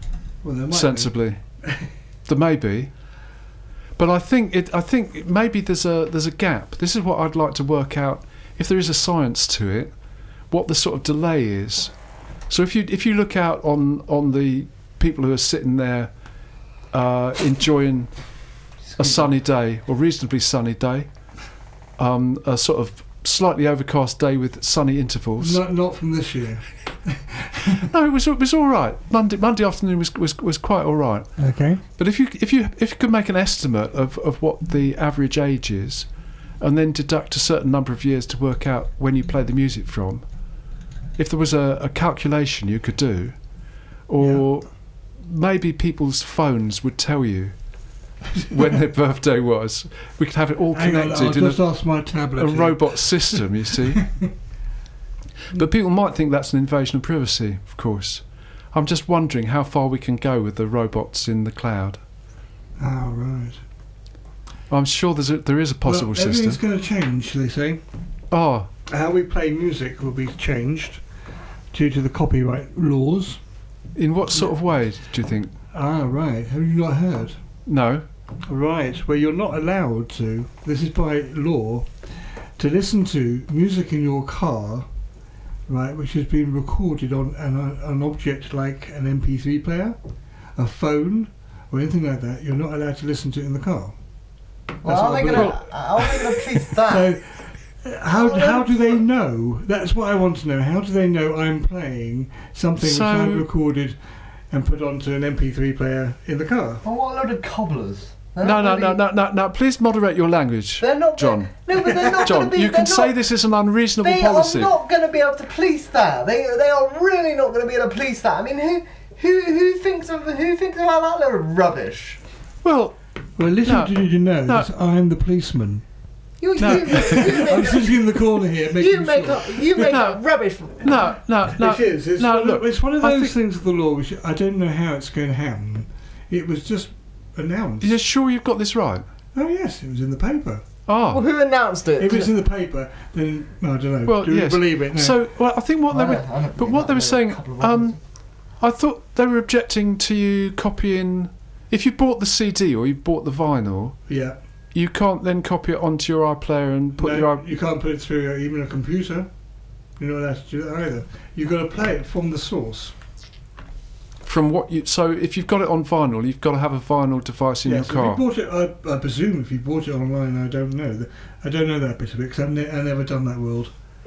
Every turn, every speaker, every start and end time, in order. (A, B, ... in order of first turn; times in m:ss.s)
0:00.4-0:01.9 A
0:00.7-0:01.6 B
0:02.2-0:03.0 B
0:04.0-0:09.9 B
0:10.5-0:11.9 B
0:12.5-0:16.1 B
0:16.9-0:18.3 B
0:19.0-0:21.1 B
0:22.0-0:25.6 B
0:25.4-0:27.8 A
0:27.9-0:36.1 B
0:31.4-0:31.8 A
0:36.6-0:40.2 B
0:41.2-0:43.4 B
0:44.1-0:47.5 B
0:44.2-0:44.6 A
0:48.4-0:51.6 B
0:50.7-0:54.3 A
0:52.4-0:54.1 B
0:55.5-1:02.0 B
1:02.8-1:03.6 A
1:04.7-1:06.6 B
1:05.8-1:07.8 A
1:08.3-1:08.7 B
1:08.9-1:11.0 A
1:11.7-1:13.4 A
1:14.0-1:15.5 B
1:15.7-1:17.4 A
1:17.6-1:18.0 B
1:18.4-1:24.8 A
1:25.7-1:30.0 A
1:30.6-1:34.0 A
1:34.8-1:37.1 C
1:34.8-1:44.0 A
1:38.0-1:39.0 C
1:42.8-1:43.4 B
1:44.5-1:46.8 A
1:46.8-1:49.0 C
1:48.4-1:51.5 B
1:50.8-1:53.2 C
1:52.2-1:54.7 B
1:54.0-2:02.2 C
2:02.6-2:03.0 B
2:03.4-2:05.8 A
2:03.6-2:03.9 B
2:06.4-2:08.1 C
2:06.6-2:09.9 A
2:06.6-2:07.3 B
2:08.7-2:11.0 C
2:09.8-2:10.2 B
2:10.8-2:13.3 B
2:11.5-2:18.0 A
2:17.8-2:19.0 B
2:19.3-2:20.6 A
2:20.9-2:21.2 B
2:21.1-2:22.3 C
2:22.0-2:25.2 A
2:24.0-2:28.0 B
2:25.9-2:28.0 C
2:28.6-2:34.1 B
2:34.1-2:34.4 A
2:34.7-2:37.4 B
2:37.0-2:39.3 A
2:40.0-2:42.9 A
2:44.2-2:48.2 B
2:47.6-2:53.7 A